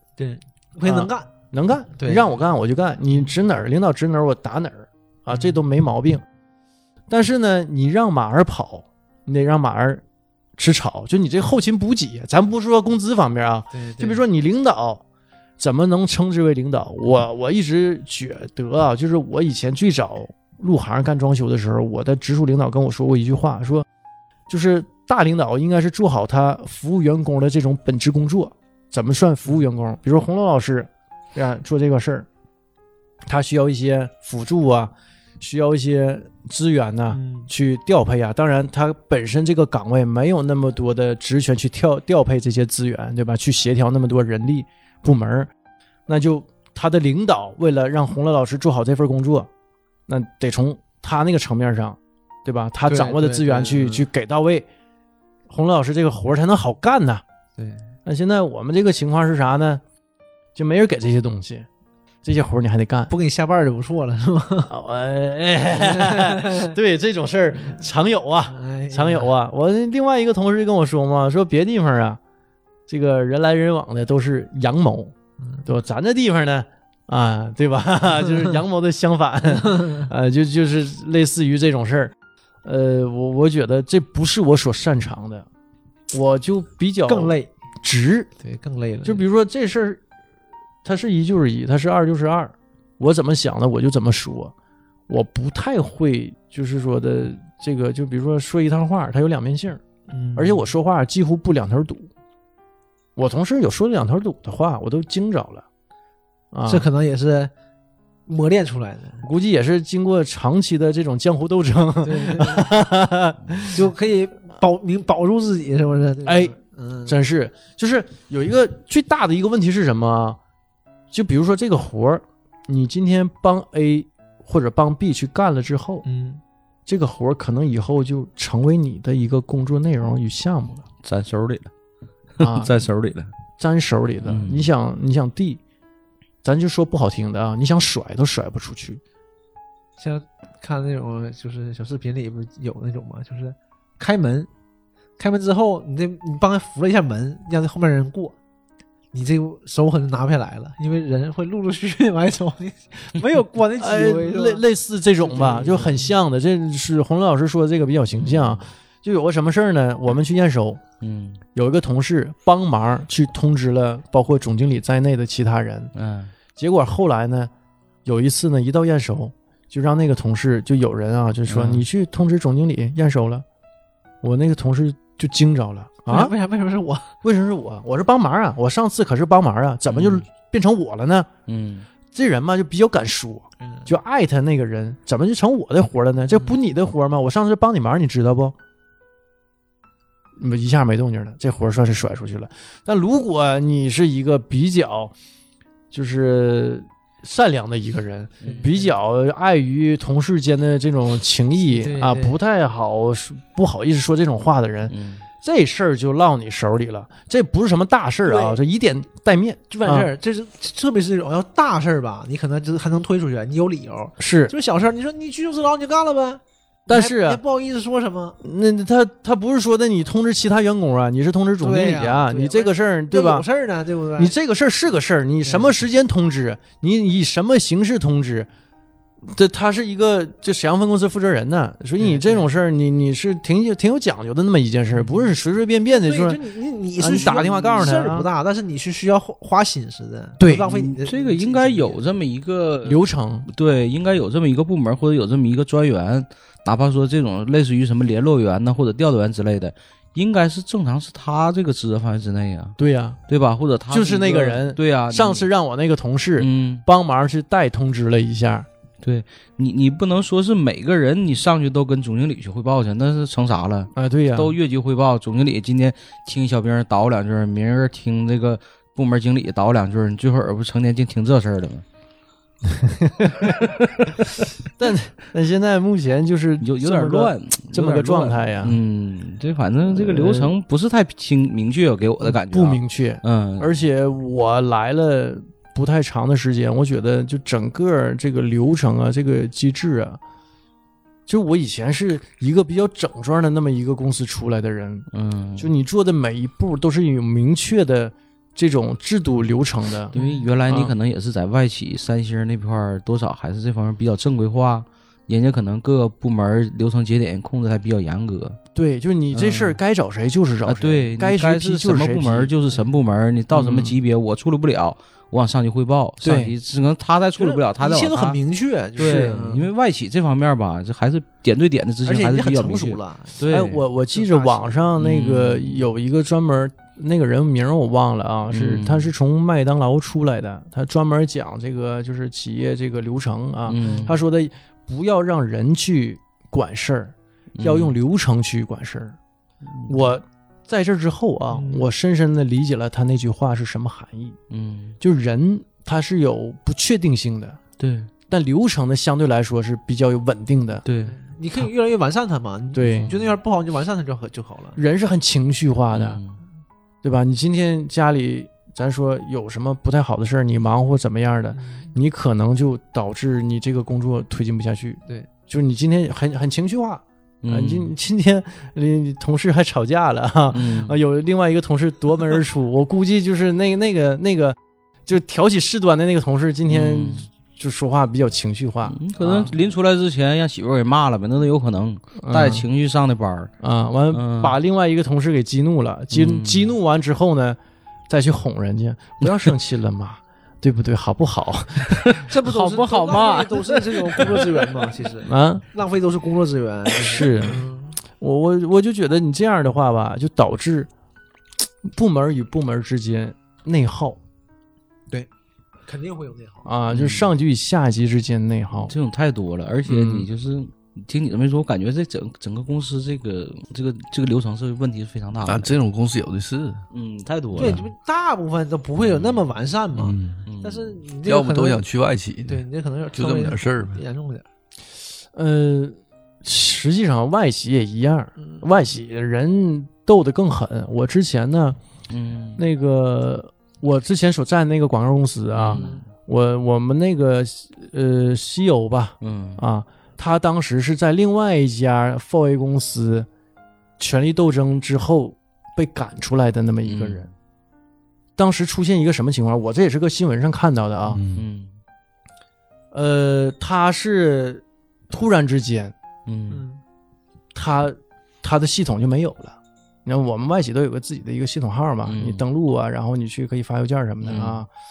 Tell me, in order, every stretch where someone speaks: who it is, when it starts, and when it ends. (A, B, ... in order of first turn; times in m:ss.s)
0:00.2-0:01.3 A
0:00.8-0:06.2 B
0:01.9-0:02.4 A
0:07.1-0:10.0 B
0:10.6-0:15.0 B
0:13.7-0:14.2 A
0:15.6-0:23.8 B
0:24.5-0:32.3 B
0:33.3-0:45.5 B
0:37.1-0:37.5 A
0:46.1-0:49.5 B
0:50.1-0:54.7 B
0:52.8-0:54.1 A
0:55.5-0:57.2 B
0:57.6-0:57.8 A
0:58.0-0:59.8 B
1:00.5-1:01.7 B
1:02.2-1:03.1 B
1:03.1-1:04.7 A
1:04.7-1:12.2 B
1:05.7-1:06.7 A
1:08.5-1:09.3 A
1:12.9-1:15.1 B
1:15.4-1:15.6 A
1:15.6-1:25.4 B
1:19.5-1:20.1 A
1:26.1-1:28.3 B
1:27.1-1:27.5 A
1:28.4-1:29.2 A
1:29.0-1:30.0 B
1:30.8-1:34.5 B
1:35.1-1:39.8 B
1:40.1-1:40.7 A
1:40.3-1:42.1 B
1:43.2-1:45.6 B
1:46.5-1:46.8 B
1:46.7-1:47.5 A
1:48.3-1:49.2 A
1:49.2-1:53.8 B
1:52.0-1:52.7 A
1:53.7-1:57.2 A
1:56.2-1:56.5 B
1:57.0-2:00.4 B
2:01.1-2:06.0 B
2:06.0-2:06.4 A
2:06.9-2:10.8 B
2:11.0-2:11.7 C
2:12.4-2:13.3 C
2:12.4-2:12.7 B
2:13.6-2:15.6 B
2:14.2-2:14.7 C
2:16.4-2:19.0 B
2:20.0-2:24.5 A
2:25.2-2:28.4 A
2:29.1-2:34.6 A
2:33.8-2:40.8 B
2:35.2-2:36.1 A
2:38.2-2:38.7 C
2:41.0-2:41.4 C
2:41.5-2:45.9 B
2:45.9-2:46.3 C
2:46.6-2:47.5 B
2:48.0-2:53.4 B
2:51.5-2:51.8 C
2:54.2-2:56.3 B
2:56.1-2:57.1 A
2:57.2-3:01.3 B
2:59.9-3:00.2 C
3:01.5-3:01.9 C
3:02.1-3:08.5 B
3:03.6-3:03.9 A
3:06.3-3:06.6 A
3:10.4-3:15.1 B
3:15.9-3:30.1 B
3:18.4-3:18.7 C
3:18.4-3:18.9 A
3:21.7-3:22.4 A
3:24.9-3:25.2 C
3:28.2-3:28.6 A
3:29.7-3:38.4 A
3:34.2-3:34.5 B
3:36.9-3:37.4 B
3:38.4-3:43.4 B
3:41.6-3:44.3 A
3:44.2-3:48.5 B
3:45.4-3:45.8 A
3:49.3-3:56.4 B
3:52.0-3:52.5 A
3:54.9-3:55.3 A
3:55.9-4:02.1 A
3:57.0-3:58.3 B
4:00.4-4:00.6 B
4:00.6-4:12.8 C
4:02.8-4:03.5 B
4:12.8-4:13.2 B
4:13.3-4:15.5 C
4:13.9-4:18.7 B
4:16.4-4:16.8 C
4:19.0-4:31.8 C
4:23.9-4:24.5 B
4:32.7-4:33.7 B
4:34.8-4:38.8 B
4:36.6-4:43.8 C
4:39.9-4:40.5 B
4:42.2-4:50.2 B
4:51.3-4:55.0 B
4:55.1-4:55.7 C
4:55.6-5:00.1 B
5:00.1-5:08.6 C
5:00.1-5:00.5 A
5:00.7-5:00.9 B
5:08.7-5:12.5 B
5:09.3-5:09.8 C
5:10.6-5:18.4 C
5:13.5-5:14.0 B
5:16.2-5:16.5 B
5:17.4-5:19.7 A
5:19.0-5:23.8 C
5:22.0-5:23.4 A
5:23.5-5:39.2 B
5:24.1-5:24.9 A
5:25.0-5:25.8 C
5:28.5-5:29.1 C
5:33.7-5:34.2 C
5:33.8-5:34.1 A
5:37.6-5:37.9 C
5:39.7-5:40.1 C
5:39.9-5:44.4 B
5:41.5-5:41.9 A
5:44.5-5:45.0 C
5:45.0-5:47.6 B
5:47.8-5:48.1 C
5:48.3-5:50.8 B
5:50.8-5:51.2 C
5:51.0-5:54.8 A
5:52.7-5:53.2 B
5:52.8-5:53.2 C
5:54.8-5:56.2 B
5:55.9-5:56.4 C
5:57.0-6:14.6 B
6:01.5-6:01.9 A
6:07.4-6:07.9 C
6:10.5-6:11.0 C
6:15.1-6:19.5 B
6:16.7-6:17.3 C
6:18.9-6:23.5 C
6:22.2-6:22.6 B
6:23.6-6:27.6 B
6:24.1-6:24.6 C
6:26.1-6:26.7 C
6:28.1-6:32.1 B
6:32.2-6:34.9 C
6:32.3-6:38.0 A
6:35.2-6:35.6 B
6:37.0-6:37.6 B
6:38.2-6:40.9 B
6:41.8-6:44.2 B
6:45.8-6:46.7 A
6:46.6-6:48.9 B
6:46.9-6:47.3 C
6:48.9-6:55.7 C
6:49.8-6:50.3 B
6:55.4-6:56.8 D
6:56.9-6:57.9 C
6:57.6-7:01.8 A
6:59.0-6:59.4 C
6:59.9-7:00.4 D
7:00.4-7:01.0 C
7:01.2-7:04.0 D
7:02.5-7:04.4 A
7:05.3-7:11.8 B
7:08.4-7:08.6 A
7:12.1-7:12.6 C
7:12.6-7:23.3 B
7:15.5-7:16.0 C
7:15.7-7:16.0 A
7:19.2-7:19.6 C
7:24.0-7:27.2 B
7:26.8-7:27.3 C
7:28.4-7:31.2 B
7:31.1-7:31.4 D
7:31.3-7:31.7 C
7:32.9-7:35.9 B
7:36.2-7:36.6 C
7:36.5-7:36.8 A
7:37.5-7:44.7 B
7:42.0-7:42.4 C
7:44.2-7:44.6 C